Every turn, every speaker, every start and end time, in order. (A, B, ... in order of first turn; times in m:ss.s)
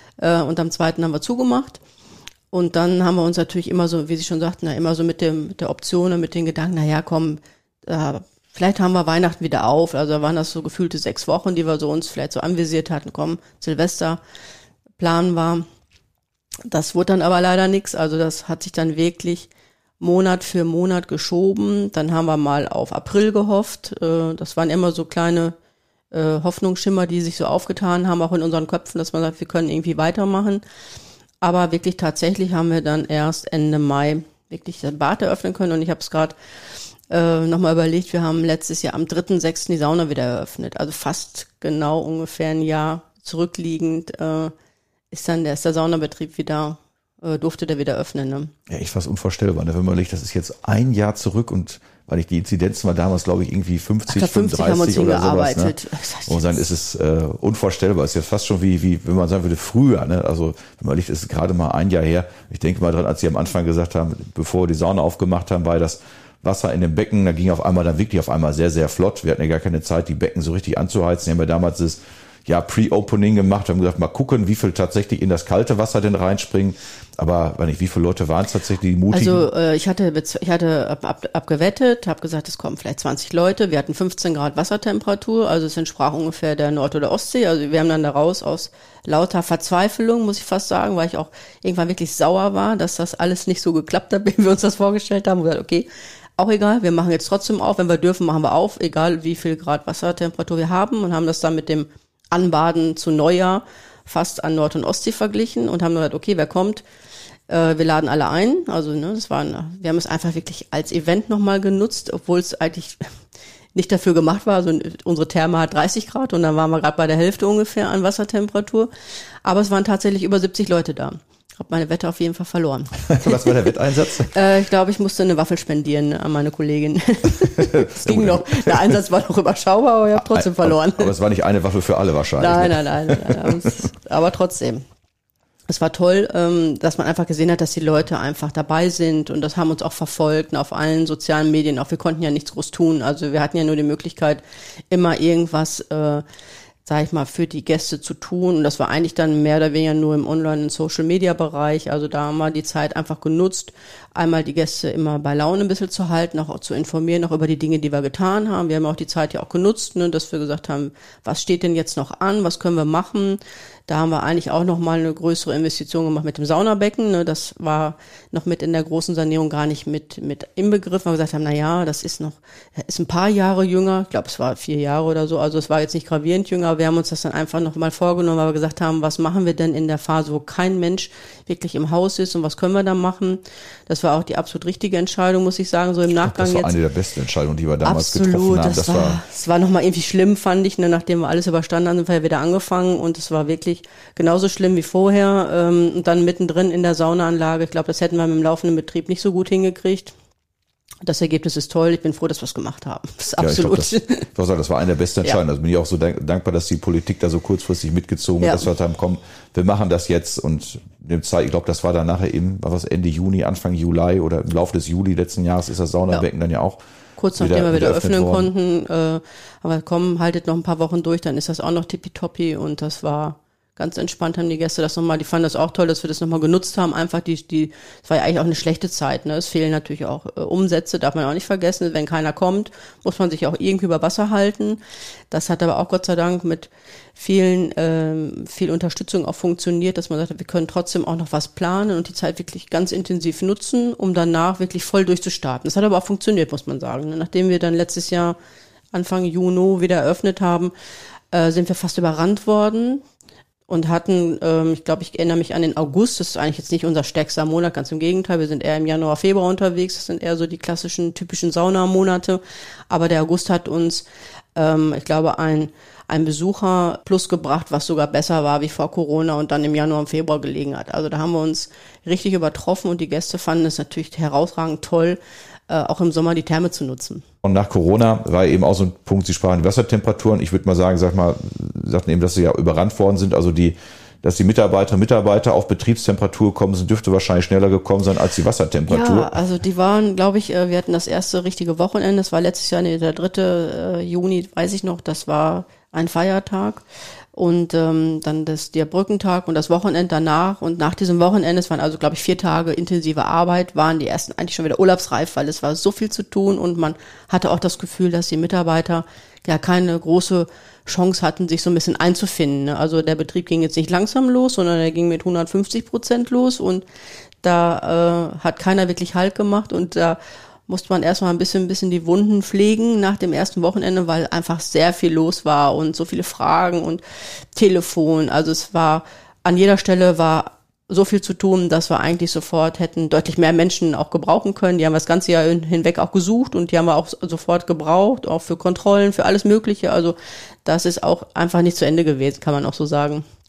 0:00.2-0:01.8 A
0:02.5-0:14.2 A
0:15.0-0:15.6 A
0:16.7-0:25.5 A
0:26.1-0:30.6 A
0:31.4-0:36.3 A
0:37.1-0:44.5 A
0:45.1-0:48.5 A
0:48.7-0:55.8 B
0:54.1-0:56.6 A
0:56.3-1:19.4 B
1:19.1-1:35.9 A
1:36.4-1:46.8 A
1:47.5-1:53.1 A
1:53.7-1:58.9 A
1:59.4-2:03.6 A
2:03.0-2:04.4 B
2:04.3-2:11.1 A
2:07.4-2:09.0 B
2:10.1-2:13.7 B
2:12.4-2:14.8 A
2:15.7-2:26.2 A
2:26.8-3:06.7 A
3:06.2-3:09.2 B
3:07.8-3:20.1 A
3:21.0-3:24.2 A
3:23.4-3:36.8 B
3:28.4-3:28.6 A
3:37.2-3:54.8 A
3:37.4-3:38.5 B
3:55.3-4:08.4 A
4:08.9-4:10.7 A
4:11.3-4:13.0 A
4:13.7-4:37.2 A
4:37.4-4:49.3 B
4:48.9-4:56.8 A
4:57.3-5:16.8 A
5:17.4-5:27.0 A
5:27.5-5:43.2 A